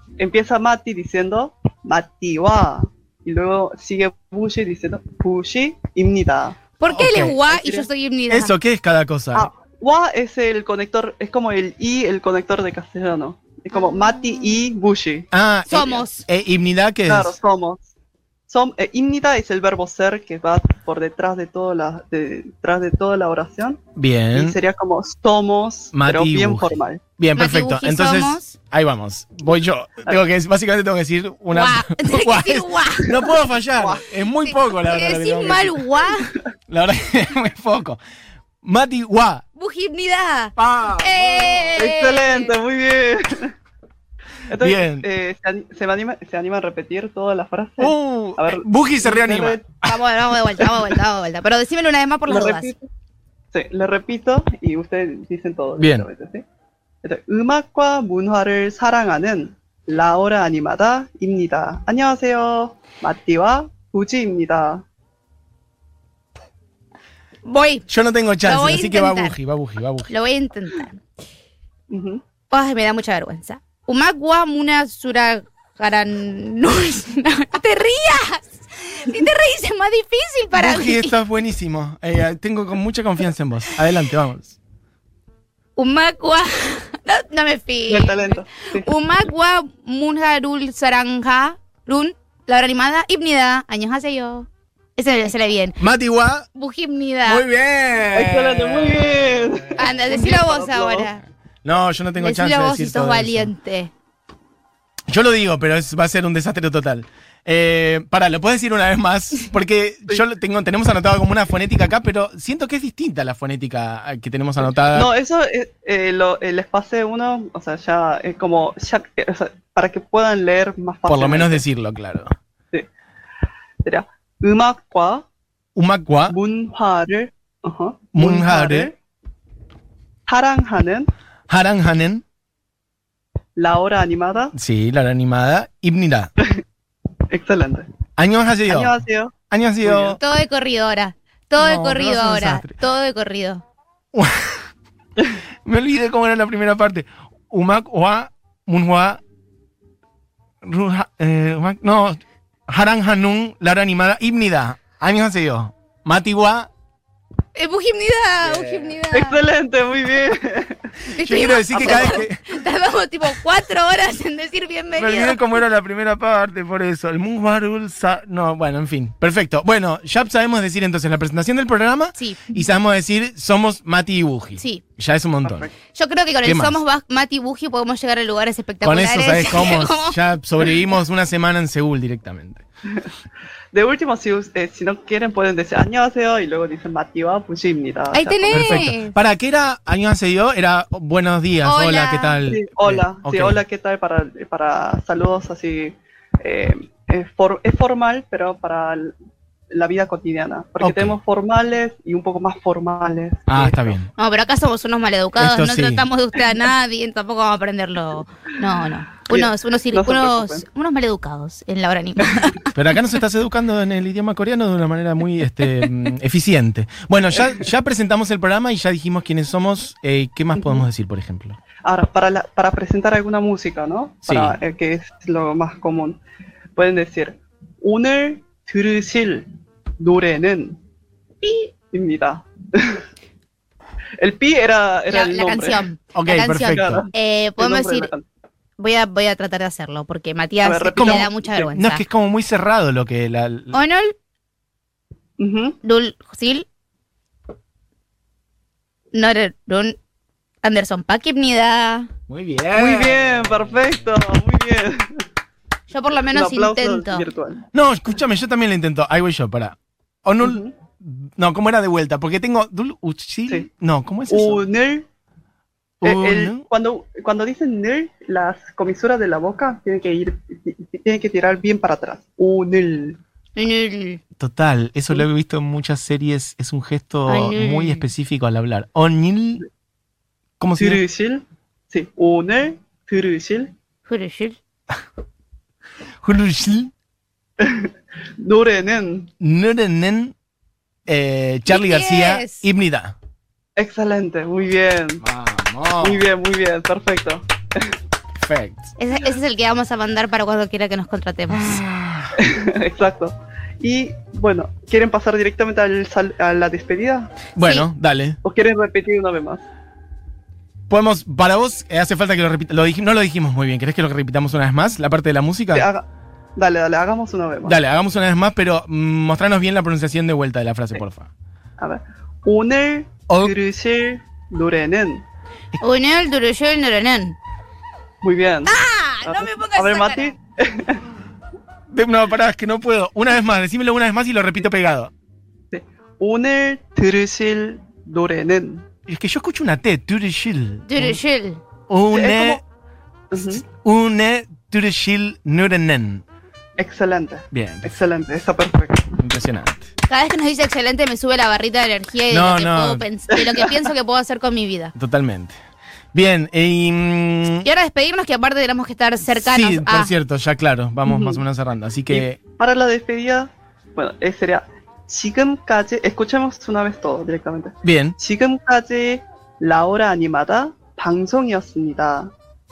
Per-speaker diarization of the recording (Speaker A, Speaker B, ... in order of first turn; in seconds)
Speaker A: 0.2-6.6, 7.5-7.9, 9.3-15.3, 17.1-17.9, 18.5-23.8, 24.3-27.0, 33.1-34.1, 41.8-43.5, 44.5-49.8, 50.6-51.0, 52.3-52.9, 53.5-56.4, 57.0-64.8, 71.9-72.2, 87.9-88.9, 98.1-101.2, 114.6-121.7, 123.8-125.2, 126.3-129.0, 130.3-131.1, 133.6-134.5, 137.3-137.9, 138.7-140.2, 159.1-160.9, 161.8-162.2, 175.4-175.8, 183.7-188.9, 192.5-199.2, 199.7-204.0, 209.3-210.7, 220.6-220.9, 221.8-226.2, 226.8-229.5, 230.0-230.8, 231.9-233.0, 234.2-235.9, 236.7-238.2, 240.6-241.3, 245.4-245.8, 252.7-255.2, 256.3-257.6, 260.4-260.7, 264.3-265.1, 266.0-273.2, 280.8-283.7, 287.6-289.3, 293.8-295.2, 296.0-298.0, 302.4-307.4, 308.4-309.7, 315.7-316.1, 316.6-317.8, 321.8-325.2, 328.2-331.0, 335.7-338.9, 342.1-342.6, 343.3-343.6, 346.8-349.2, 353.3-353.9, 361.0-361.4, 362.1-372.3
Speaker B: 6.8-8.6, 13.7-14.6, 15.7-16.2, 27.4-28.6, 31.5-33.2, 34.5-36.4, 39.6-42.5, 49.8-52.7, 67.5-67.9, 68.4-69.4, 70.1-71.0, 72.5-81.1, 85.8-95.8, 96.5-97.5, 99.8-101.2, 102.2-103.9, 140.2-143.6, 157.6-159.4, 161.1-165.4, 172.2-172.6, 174.6-174.8, 175.9-180.2, 188.1-189.2, 191.6-192.4, 204.2-212.7, 231.4-231.7, 235.1-238.1, 238.8-242.1, 243.7-244.1, 245.8-246.7, 249.1-250.0, 250.6-252.1, 255.9-257.3, 273.6-274.2, 277.3-278.1, 284.1-284.6, 291.7-292.7, 299.0-301.8, 307.6-307.9, 325.8-327.4, 328.6-330.3, 340.9-341.6, 350.1-354.9, 357.6-360.1
Speaker C: 6.9-7.4, 8.3-9.5, 15.3-17.4, 24.0-24.6, 25.9-35.8, 36.7-38.0, 38.6-39.4, 40.6-41.8, 44.6-45.1, 47.8-49.7, 55.8-56.1, 67.9-70.1, 80.5-84.6, 95.8-96.5, 97.3-99.4, 101.6-103.5, 105.1-115.1, 121.1-122.3, 125.8-126.4, 128.1-128.9, 131.5-132.2, 134.5-136.3, 138.2-139.0, 139.5-140.2, 141.6-142.8, 144.1-144.6, 145.7-149.2, 150.6-156.7, 158.4-159.0, 161.1-162.5, 164.9-175.7, 176.4-176.8, 178.8-182.6, 188.5-193.6, 200.8-201.2, 203.5-204.1, 205.4-206.1, 212.7-221.6, 224.3-224.6, 236.1-237.1, 240.9-243.8, 252.3-253.7, 257.7-264.6, 266.0-266.6, 274.4-279.6, 280.6-281.0, 286.2-286.9, 289.4-290.4, 291.1-293.1, 295.2-296.2, 298.4-298.9, 301.5-302.3, 307.6-308.4, 310.9-315.9, 317.6-321.3, 331.9-335.1, 339.1-341.2, 341.9-342.6, 343.3-346.2, 347.5-348.0, 349.2-349.9, 352.3-353.1, 354.9-355.6, 356.1-357.7, 359.3-362.4, 367.8-368.2